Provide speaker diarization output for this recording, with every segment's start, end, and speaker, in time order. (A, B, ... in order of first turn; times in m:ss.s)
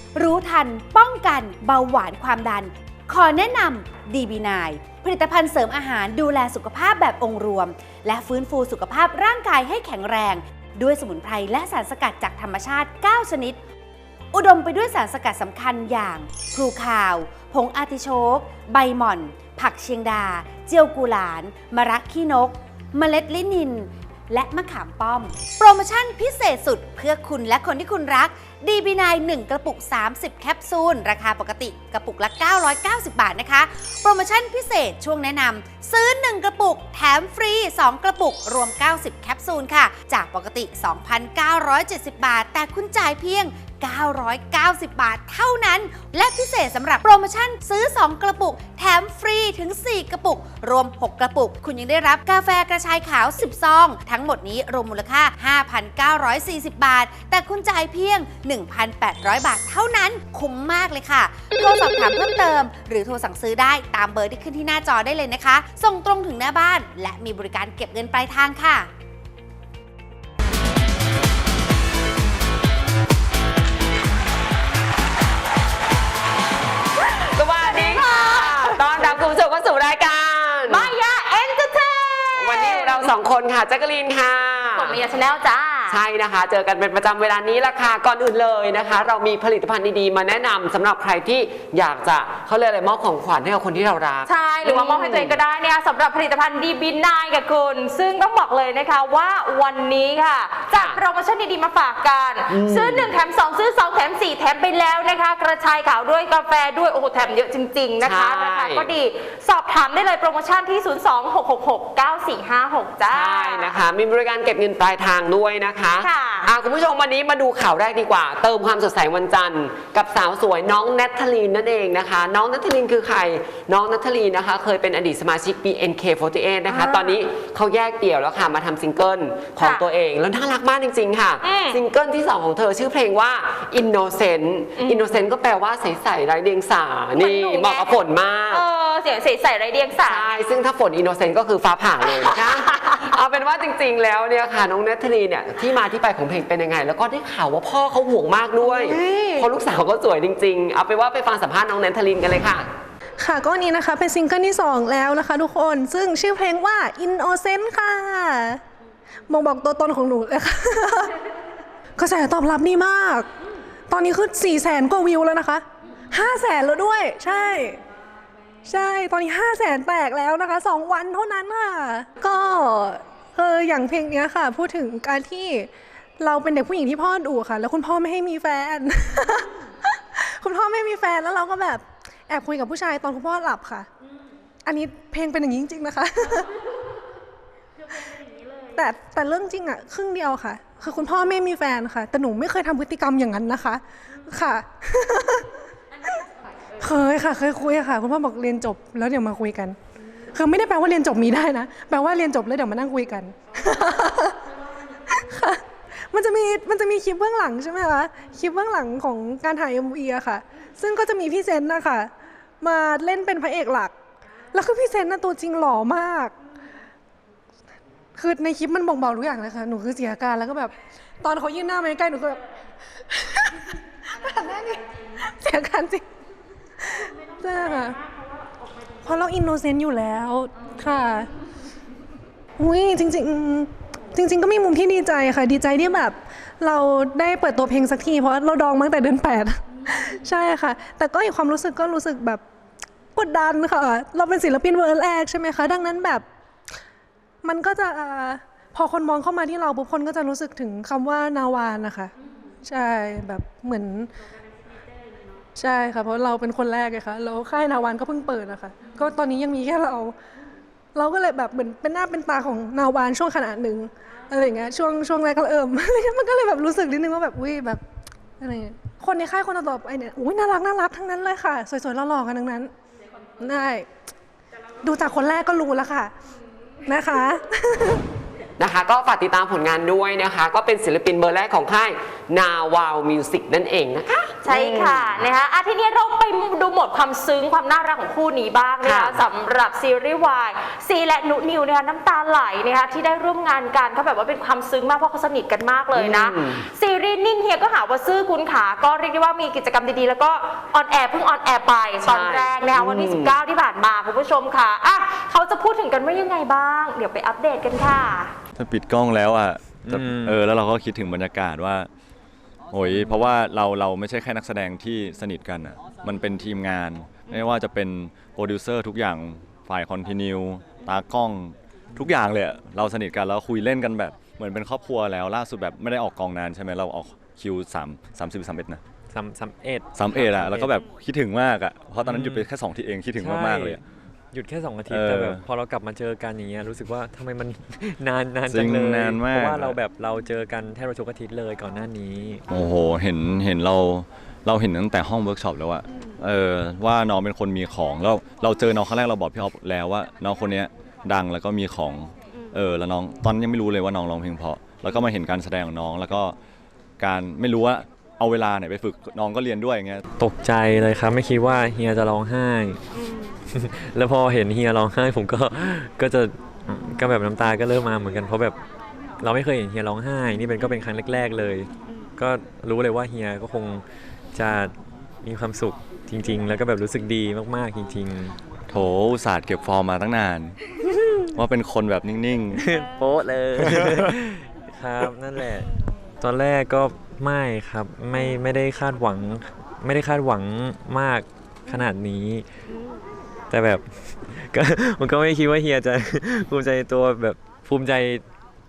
0:00.1-0:13.6 A
0:14.3-1:08.9 A
1:17.3-1:20.9 B
1:17.6-1:19.0 C
1:20.7-1:23.1 C
1:22.4-1:25.0 B
1:24.8-1:26.0 C
1:25.9-1:35.4 B
1:34.2-1:53.7 C
1:40.7-1:41.0 B
1:42.5-1:43.1 B
1:48.0-1:48.9 B
1:53.1-2:18.6 B
1:56.0-1:56.5 C
2:06.7-2:07.2 C
2:09.6-2:09.9 C
2:11.4-2:11.8 C
2:14.8-2:15.2 C
2:17.1-2:18.0 C
2:18.5-2:20.5 C
2:20.0-2:32.7 B
2:22.4-2:23.1 C
2:33.2-2:38.6 D
2:39.3-2:41.1 D
2:42.0-2:43.3 D
2:43.9-2:47.8 D
2:48.6-3:03.9 D
3:04.6-3:06.5 D
3:08.7-3:15.5 D
3:16.8-3:19.8 D
3:20.3-3:24.4 D
3:25.1-3:33.9 D
3:34.5-3:36.3 D
3:38.2-3:42.4 D
3:43.1-3:43.5 D
3:44.2-3:46.0 D
3:46.8-3:48.0 D
3:49.0-3:51.3 D
3:52.6-4:02.4 D
4:03.2-4:06.2 D
4:07.4-4:14.1 D
4:15.6-4:20.1 D
4:20.9-4:27.8 D
4:28.4-4:32.7 D
4:33.4-4:33.9 D
4:34.8-4:36.1 D
4:36.8-4:38.0 D
4:38.6-4:45.2 B
4:44.4-5:08.3 C
4:48.8-4:49.2 B
4:55.9-4:56.6 B
5:02.0-5:03.4 B
5:08.6-5:11.9 E
5:09.8-5:10.4 F
5:12.7-5:28.8 E
5:12.8-5:13.3 F
5:29.1-5:30.8 F
5:29.9-5:33.8 E
5:32.0-5:32.5 F
5:33.2-5:33.8 F
5:34.3-5:42.4 F
5:34.9-5:35.4 E
5:38.5-5:39.8 E
5:42.5-5:56.4 E
5:57.0-6:00.0 E
6:00.2-6:02.8 F
6:03.5-6:08.6 F
6:09.2-6:13.8 F
6:14.3-6:18.4 F
6:18.7-6:20.6 E
6:21.4-6:22.6 E
6:22.5-6:25.7 F
6:23.6-6:24.1 E
6:26.2-6:32.4 F
6:33.5-6:38.2 F